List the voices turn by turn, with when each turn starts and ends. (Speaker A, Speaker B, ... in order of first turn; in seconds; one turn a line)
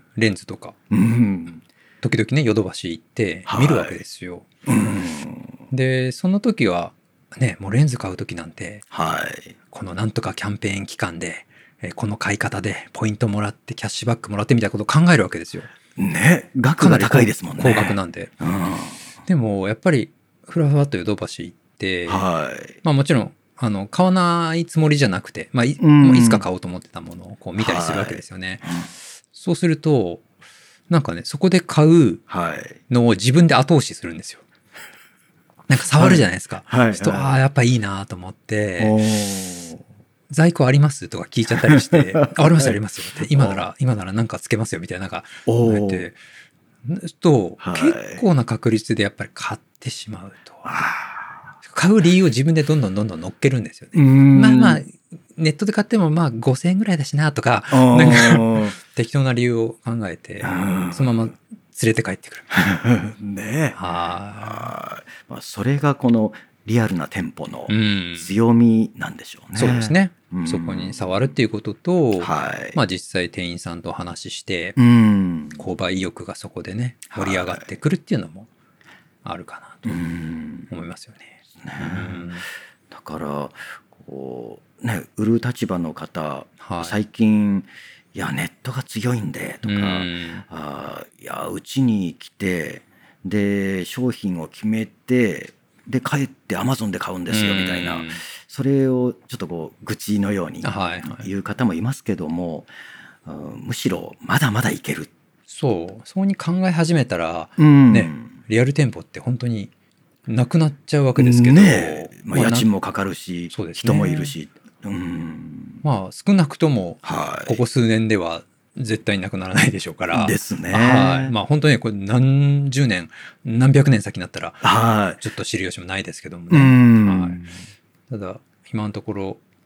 Speaker A: 0.1-0.8
Speaker B: 0.9-1.6
Speaker A: 2.0-5.1
Speaker B: 3.5-4.0
Speaker B: 4.7-5.6
Speaker A: 5.7-8.8
Speaker B: 8.9-9.5
Speaker A: 9.7-15.7
Speaker B: 16.0-19.0
Speaker A: 16.8-18.3
Speaker A: 19.2-22.2
Speaker B: 22.1-22.8
Speaker A: 22.8-28.7
Speaker B: 25.8-26.4
Speaker B: 27.6-28.9
Speaker A: 29.3-30.2
Speaker A: 30.9-32.2
Speaker B: 32.3-32.8
Speaker A: 32.9-34.4
Speaker A: 35.7-39.0
Speaker B: 35.9-37.4
Speaker B: 38.8-39.8
Speaker A: 40.3-46.2
Speaker B: 41.5-43.6
Speaker B: 45.5-46.1
Speaker A: 46.8-50.9
Speaker B: 47.6-48.2
Speaker B: 50.6-51.3
Speaker A: 51.6-62.5
Speaker B: 53.9-54.8
Speaker B: 57.7-58.7
Speaker B: 60.4-61.3
Speaker B: 62.5-63.8
Speaker A: 63.7-64.7
Speaker B: 64.3-71.2
Speaker A: 67.7-68.3
Speaker A: 69.5-74.8
Speaker B: 72.2-72.8
Speaker B: 74.8-75.7
Speaker A: 75.6-78.5
Speaker B: 77.1-77.7
Speaker A: 79.2-80.0
Speaker B: 79.8-80.7
Speaker A: 80.7-82.5
Speaker B: 81.6-82.3
Speaker B: 82.9-102.7
Speaker A: 86.6-86.9
Speaker A: 89.6-90.4
Speaker A: 97.3-98.2
Speaker A: 100.6-101.3
Speaker B: 103.2-105.1
Speaker A: 105.5-109.7
Speaker B: 107.6-108.3
Speaker A: 110.3-112.7
Speaker B: 111.2-115.8
Speaker A: 113.5-114.3
Speaker A: 115.8-124.7
Speaker B: 117.0-117.6
Speaker B: 120.1-121.3
Speaker B: 124.6-125.2
Speaker A: 125.2-127.4
Speaker B: 126.5-127.6
Speaker A: 128.1-129.4